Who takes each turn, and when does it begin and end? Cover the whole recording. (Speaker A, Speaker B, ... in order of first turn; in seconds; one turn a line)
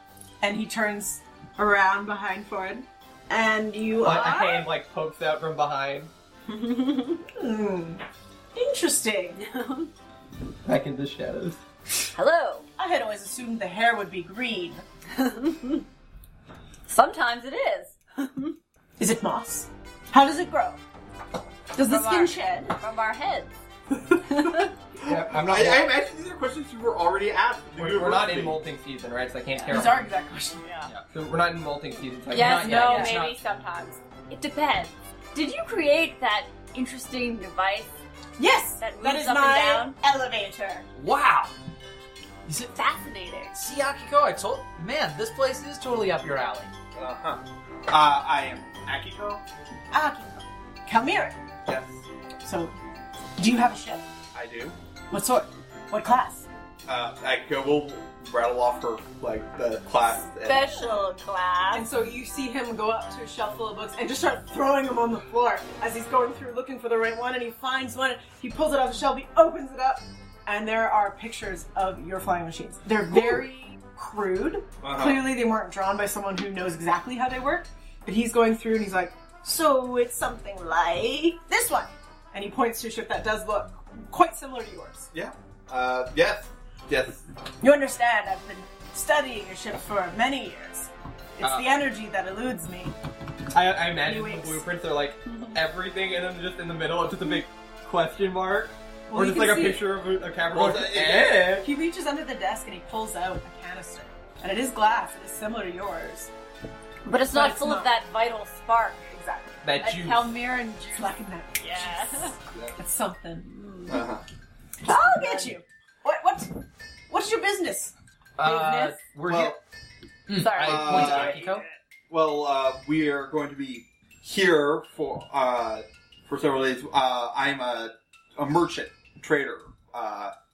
Speaker A: 0.4-4.7
Speaker B: 4.0-6.1
Speaker C: 6.5-7.2
Speaker A: 7.3-8.0
Speaker A: 8.5-9.4
Speaker C: 9.4-9.9
Speaker B: 10.6-11.6
Speaker C: 12.1-12.7
Speaker A: 12.8-14.8
Speaker C: 15.1-15.8
Speaker C: 16.9-18.6
Speaker A: 19.0-20.8
Speaker A: 21.7-22.7
Speaker C: 21.8-23.5
Speaker C: 24.2-24.7
Speaker B: 25.0-25.9
Speaker D: 25.0-28.6
Speaker B: 27.8-30.1
Speaker A: 29.7-30.7
Speaker C: 30.6-30.9
Speaker B: 31.1-32.9
Speaker C: 32.3-38.0
Speaker E: 32.3-33.4
Speaker A: 32.7-33.1
Speaker A: 38.4-40.8
Speaker C: 38.8-40.0
Speaker E: 41.0-41.5
Speaker C: 42.7-43.6
Speaker E: 43.5-46.7
Speaker D: 46.9-49.4
Speaker A: 49.9-51.4
Speaker D: 51.6-52.0
Speaker A: 52.4-52.7
Speaker A: 53.4-54.0
Speaker D: 54.3-54.8
Speaker A: 55.1-56.5
Speaker D: 56.9-60.8
Speaker C: 60.4-61.9
Speaker A: 61.7-85.1
Speaker D: 74.8-75.2
Speaker D: 85.1-87.2
Speaker A: 87.6-92.9
Speaker E: 91.4-91.7
Speaker B: 93.5-101.7
Speaker A: 94.0-94.6
Speaker A: 99.1-99.8
Speaker D: 100.5-101.5
Speaker A: 101.5-106.3
Speaker C: 107.0-109.0
Speaker A: 107.3-107.9
Speaker A: 109.1-109.6
Speaker B: 109.6-110.3
Speaker C: 109.8-112.4
Speaker A: 110.9-113.5
Speaker C: 113.5-114.0
Speaker D: 113.9-114.2
Speaker A: 114.8-116.6
Speaker C: 114.9-115.5
Speaker A: 117.1-119.0
Speaker E: 118.4-119.6
Speaker D: 119.3-119.6
Speaker E: 120.3-121.6
Speaker C: 120.4-121.6
Speaker D: 120.6-121.4
Speaker D: 122.1-130.3